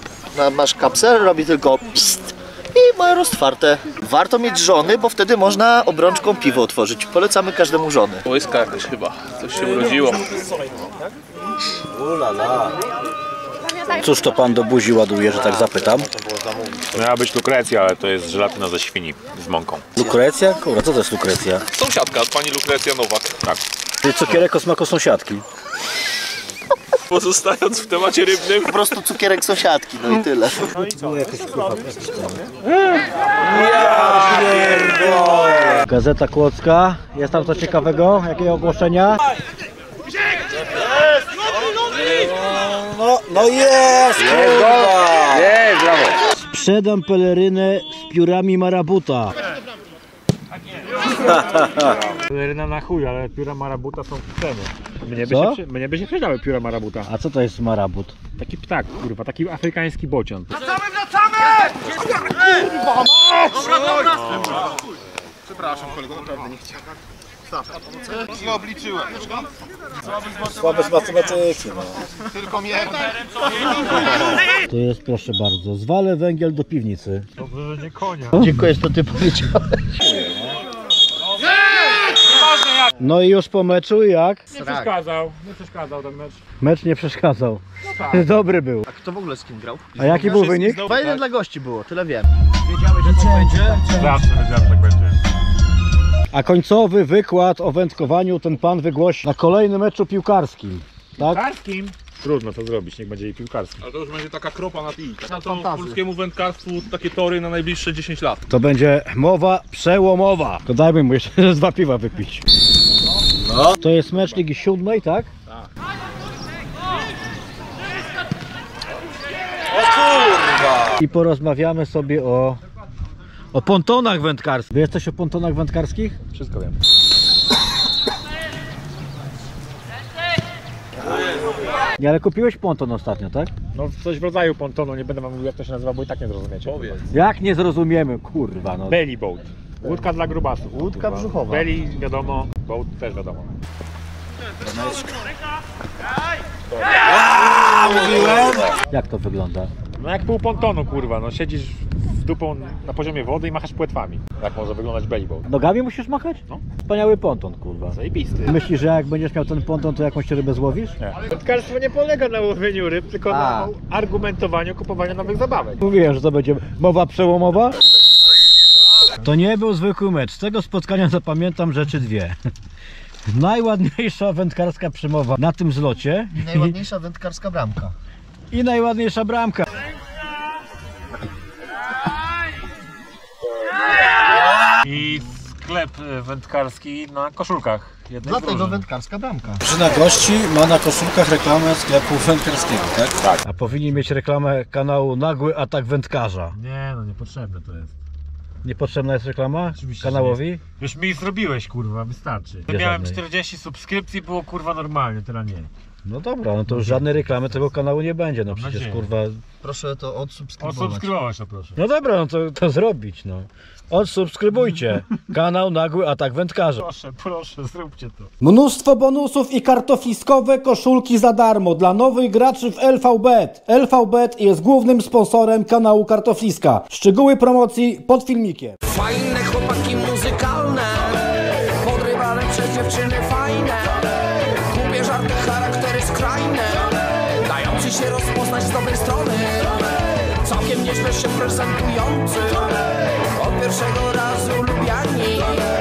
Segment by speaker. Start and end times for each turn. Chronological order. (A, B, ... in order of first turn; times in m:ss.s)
0:00.3-0:08.2 A
0:08.2-0:10.4 B
0:11.9-0:12.8 C
0:13.9-0:16.1 C
0:16.8-0:19.9 D
0:20.0-0:21.6 C
0:21.7-0:23.4 B
0:24.0-0:25.4 C
0:27.1-0:28.9 B
0:28.6-0:30.6 A
0:30.7-0:32.5 C
0:33.6-0:39.2 C
0:42.1-0:45.5 C
0:44.2-0:46.2 D
0:46.3-0:49.4 C
0:51.2-0:52.0 C
0:51.9-0:57.1 D
0:55.2-0:55.6 C
0:57.1-0:58.2 C
0:58.4-1:00.5 D
1:03.8-1:04.5 D
1:10.4-1:11.9 C
1:14.6-1:17.3 C
1:17.4-1:18.4 D
1:18.4-1:19.9 A
1:18.4-1:18.7 C
1:20.0-1:20.6 C
1:22.4-1:22.9 D
1:23.0-1:24.4 C
1:24.5-1:26.4 D
1:24.5-1:25.0 A
1:26.6-1:28.8 C
1:27.8-1:28.2 D
1:28.9-1:32.3 A
1:30.0-1:30.9 C
1:30.0-1:31.2 B
1:32.7-1:33.9 C
1:33.0-1:34.2 A
1:33.9-1:35.2 D
1:36.3-1:41.4 C
1:41.2-1:43.8 D
1:43.8-1:48.4 B
1:45.2-1:46.0 A
1:48.5-1:52.4 C
1:53.5-1:55.3 C
2:00.9-2:02.6 C
2:03.5-2:06.2 C
2:06.3-2:06.8 D
2:12.0-2:13.5 C
2:13.7-2:17.0 D
2:16.7-2:17.0 B
2:17.1-2:19.0 C
2:18.9-2:23.5 D
2:20.7-2:21.7 A
2:27.1-2:29.7 C
2:30.0-2:35.5 D
2:35.4-2:41.0 C
2:37.9-2:38.6 D
2:41.0-2:45.8 D
2:43.3-2:43.7 A
2:45.8-2:47.8 C
2:49.2-2:52.4 C
2:53.3-2:56.8 C
2:56.3-2:57.9 A
2:58.5-2:59.7 C
3:04.8-3:08.9 D
3:08.2-3:09.6 A
3:09.6-3:16.6 C
3:16.5-3:17.9 D
3:18.6-3:20.6 C
3:19.7-3:25.7 D
3:22.7-3:23.2 C
3:26.0-3:29.4 C
3:26.7-3:27.7 D
3:28.5-3:29.1 D
3:29.6-3:31.1 A
3:30.6-3:31.8 D
3:31.8-3:36.9 C
3:36.8-3:38.3 D
3:38.4-3:48.8 C
3:48.9-3:51.2 E
3:51.8-3:54.0 E
3:54.6-3:56.9 E
3:57.4-3:59.8 E
4:00.4-4:02.8 E
4:03.3-4:05.7 E